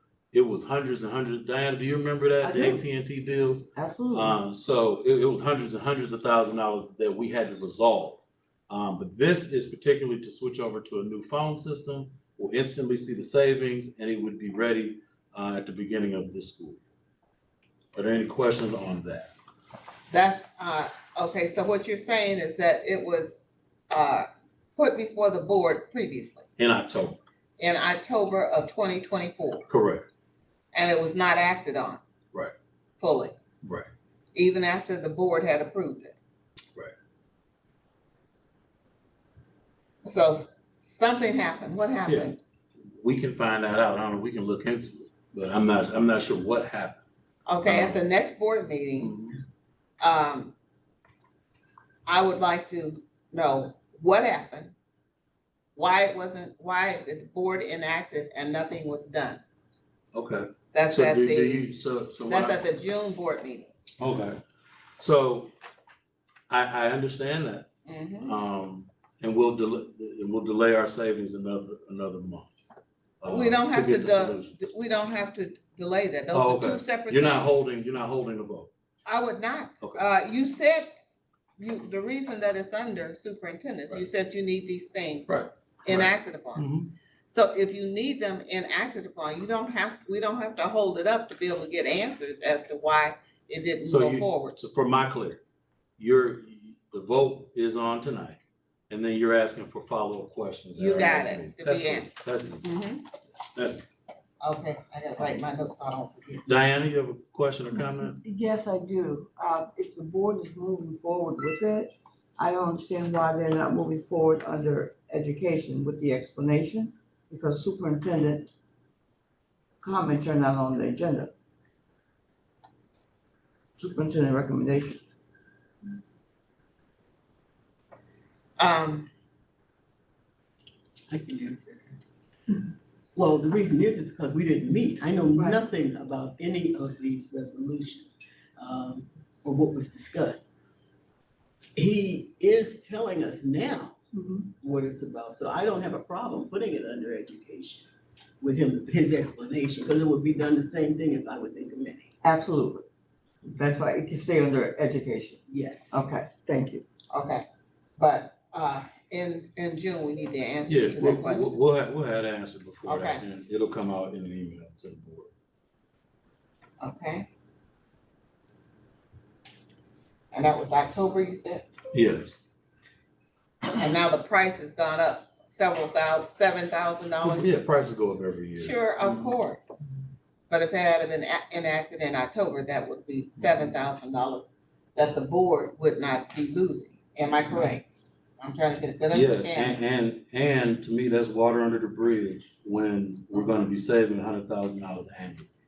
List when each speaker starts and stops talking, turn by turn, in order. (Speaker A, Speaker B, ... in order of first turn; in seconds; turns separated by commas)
Speaker A: 0.3-16.8, Speaker B: 2.4-2.8, Speaker B: 3.7-4.4, Speaker A: 17.9-19.3, Speaker C: 20.1-23.4, Speaker C: 23.9-26.5, Speaker A: 26.6-27.2, Speaker C: 27.6-29.7, Speaker A: 29.7-30.1, Speaker C: 30.7-32.0, Speaker C: 33.0-33.3, Speaker A: 33.6-33.9, Speaker C: 34.4-36.2, Speaker C: 40.0-42.4, Speaker A: 42.1-42.3, Speaker A: 42.9-47.0, Speaker C: 47.5-49.2, Speaker A: 47.6-48.0, Speaker A: 49.0-49.3, Speaker C: 50.0-50.5, Speaker C: 52.1-54.7, Speaker C: 55.8-59.4, Speaker A: 60.1-62.6, Speaker C: 60.7-61.7, Speaker C: 62.2-63.7, Speaker A: 64.0-64.4, Speaker A: 65.0-65.5, Speaker A: 66.5-67.7, Speaker C: 67.8-68.3, Speaker A: 68.2-72.5, Speaker A: 73.2-74.5, Speaker C: 73.3-77.6, Speaker A: 76.3-78.7, Speaker C: 79.1-80.9, Speaker C: 81.6-86.7, Speaker A: 85.3-86.9, Speaker C: 87.3-94.6, Speaker A: 93.8-95.4, Speaker A: 96.0-98.4, Speaker A: 98.9-102.7, Speaker C: 100.8-103.0, Speaker A: 103.5-103.9, Speaker C: 104.4-106.5, Speaker A: 106.5-108.2, Speaker B: 108.2-118.5, Speaker B: 119.8-121.3, Speaker B: 123.8-125.0, Speaker C: 128.6-129.1, Speaker D: 131.1-132.0, Speaker D: 133.2-140.5, Speaker D: 141.8-144.0, Speaker B: 144.2-144.5, Speaker D: 144.6-147.9, Speaker D: 148.4-152.1, Speaker B: 152.2-152.9, Speaker B: 153.5-156.8, Speaker D: 155.5-156.0, Speaker C: 157.1-157.4, Speaker C: 158.0-161.7, Speaker A: 160.7-165.3, Speaker C: 162.9-163.2, Speaker C: 166.8-167.3, Speaker C: 170.3-171.7, Speaker A: 171.9-172.4, Speaker C: 173.7-177.6, Speaker A: 177.2-179.4, Speaker C: 178.6-179.8, Speaker C: 180.5-189.8, Speaker A: 189.1-195.5